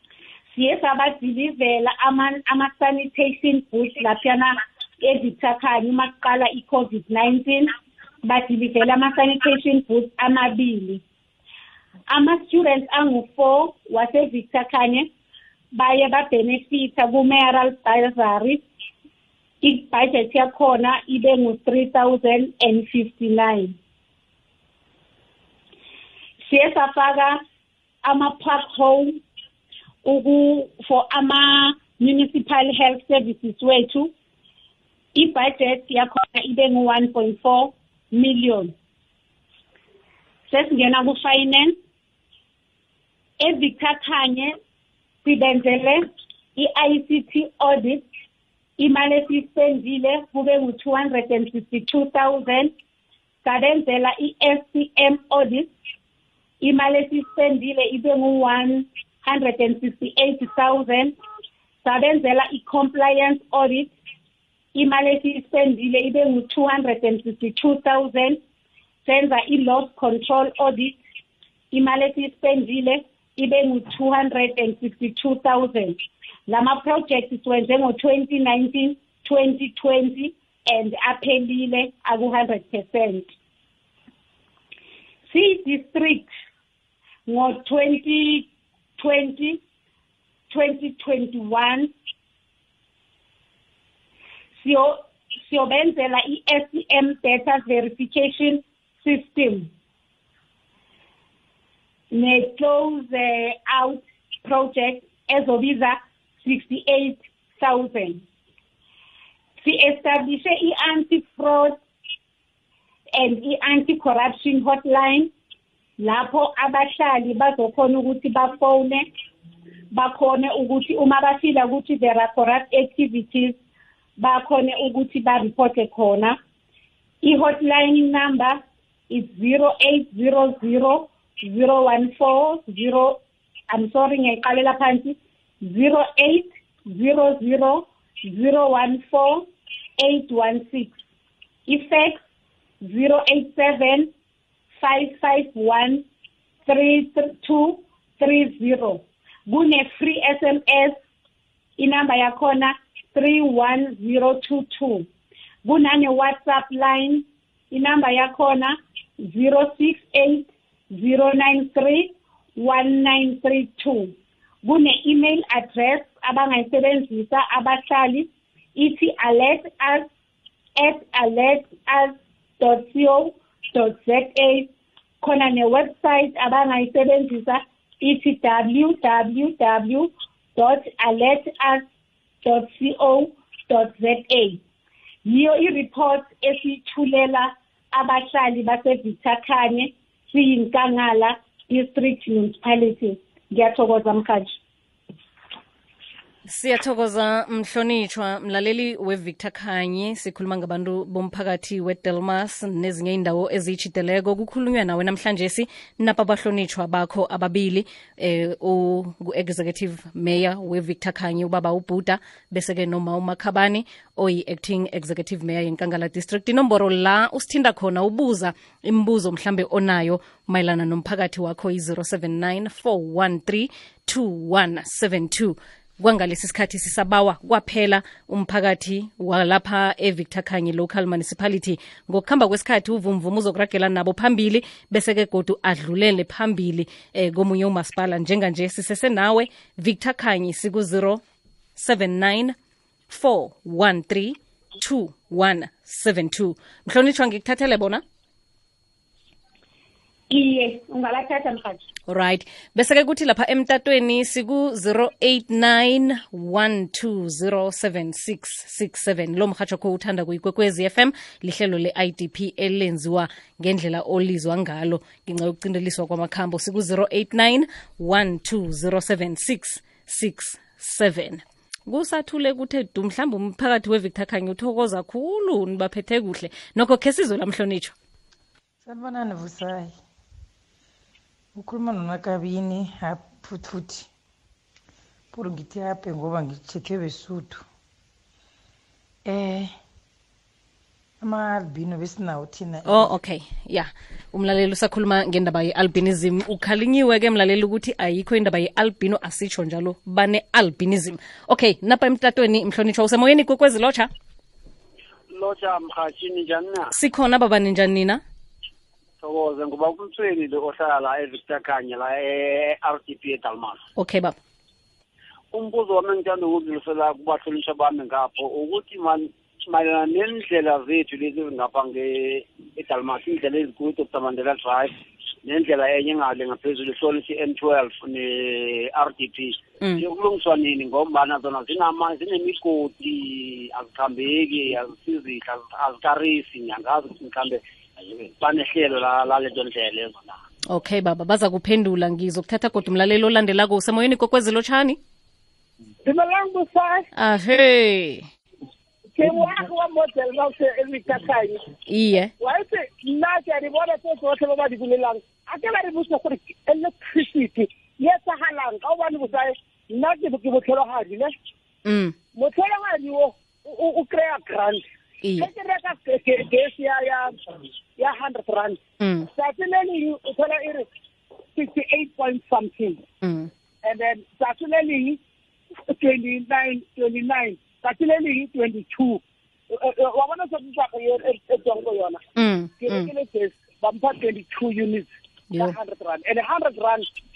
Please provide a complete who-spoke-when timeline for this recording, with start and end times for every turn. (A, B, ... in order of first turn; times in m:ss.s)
0:00.5-0:07.7 A
0:08.2-0:11.0 A
0:12.1-0:15.1 A
0:15.7-0:18.6 A
0:19.6-0:23.8 A
0:26.4-0:27.4 A
0:28.0-0:29.2 A
0:30.0-0:34.1 A
0:35.2-0:38.7 A
0:40.5-0:41.8 A
0:43.4-0:44.6 A
0:45.2-0:48.0 A
0:48.8-0:52.7 A
0:53.4-0:55.7 A
0:56.6-1:01.2 A
1:01.8-1:03.9 A
1:04.7-1:08.4 A
1:09.0-1:11.0 A
1:11.7-1:23.3 A
1:25.3-1:26.3 A
1:27.3-1:29.6 A
1:30.5-1:31.9 A
1:34.6-1:39.7 A
1:42.1-1:48.2 A
1:49.6-1:51.8 A
1:53.1-1:55.3 A
1:56.0-1:59.1 A
1:59.9-2:03.6 A
2:04.2-2:06.4 A
2:07.2-2:13.2 A
2:13.7-2:19.5 A
2:20.0-2:20.9 A
2:21.7-2:22.2 A
2:22.8-2:24.1 A
2:24.8-2:26.0 A
2:26.7-2:31.0 A
2:31.8-2:35.1 A
2:35.6-2:50.1 A
2:50.8-2:54.7 A
2:55.2-3:01.8 A
3:02.4-3:04.6 A
3:05.2-3:14.6 A
3:16.5-4:01.2 B
4:01.8-4:02.6 B
4:03.1-4:08.0 B
4:10.3-4:11.8 A
4:12.1-4:38.0 B
4:38.8-4:40.0 C
4:41.6-4:44.1 C
4:45.3-4:47.6 C
4:49.3-4:49.7 C
4:51.2-4:53.1 C
4:52.9-5:04.1 B
5:05.3-5:06.9 D
5:06.9-5:08.2 B
5:09.2-5:13.8 D
5:14.0-5:14.4 B
5:15.5-5:40.3 D
5:40.7-5:45.0 B
5:46.0-5:47.1 E
5:47.2-5:48.3 B
5:49.2-5:51.6 E
5:51.9-5:52.3 B
5:52.4-6:01.3 E
6:01.8-6:02.2 B
6:02.4-6:04.8 E
6:05.2-6:05.5 B
6:05.4-6:07.4 E
6:08.0-6:08.8 E
6:09.0-6:09.3 B
6:09.3-6:10.9 E
6:11.6-6:13.0 E
6:13.2-6:13.5 B
6:13.8-6:15.2 E
6:15.9-6:19.2 E
6:19.7-6:22.2 E
6:22.4-6:23.1 B
6:22.8-6:27.1 E
6:25.5-6:25.8 B